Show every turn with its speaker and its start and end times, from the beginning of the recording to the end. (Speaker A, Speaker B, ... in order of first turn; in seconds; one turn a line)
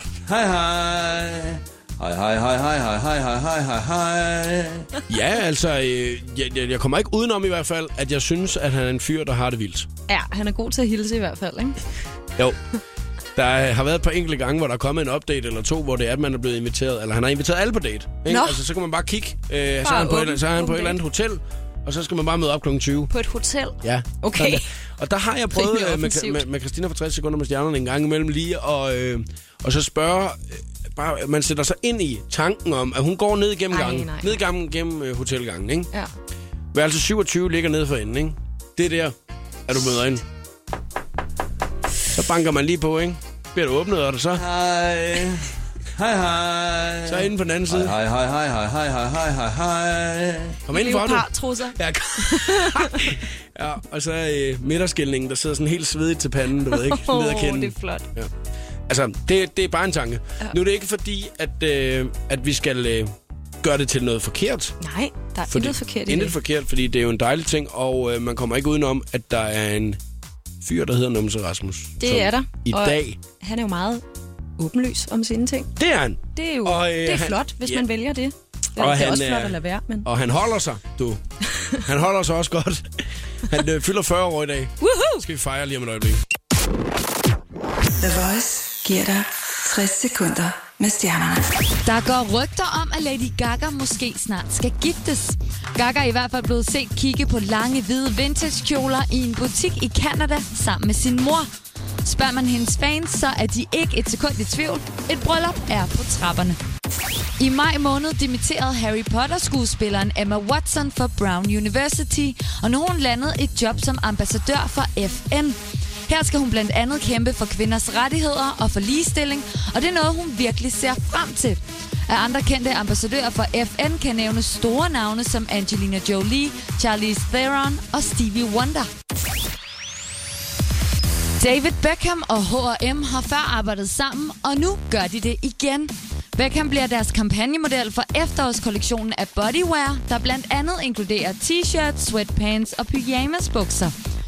Speaker A: 0.3-4.9
Speaker B: 5.1-9.9
Speaker C: 10.1-11.8
Speaker B: 13.4-23.1
Speaker C: 18.3-18.6
Speaker C: 19.8-21.0
Speaker C: 23.1-24.6
Speaker B: 23.8-35.9
Speaker C: 25.5-26.4
Speaker C: 33.7-34.4
Speaker B: 36.7-39.1
Speaker B: 39.7-40.2
Speaker B: 42.1-44.4
Speaker A: 44.4-50.6
Speaker B: 47.1-48.0
Speaker B: 50.7-58.3
Speaker C: 50.7-53.1
Speaker C: 56.7-58.1
Speaker B: 58.9-64.8
Speaker C: 64.8-66.4
Speaker B: 65.5-70.0
Speaker B: 70.6-73.2
Speaker C: 72.0-74.0
Speaker C: 74.6-75.7
Speaker B: 75.8-77.9
Speaker C: 76.3-80.1
Speaker B: 78.8-81.2
Speaker B: 81.8-82.9
Speaker B: 83.5-86.2
Speaker C: 84.8-85.2
Speaker D: 88.0-91.5
Speaker E: 91.8-101.5
Speaker E: 102.0-106.6
Speaker E: 107.4-128.9
Speaker E: 131.4-143.9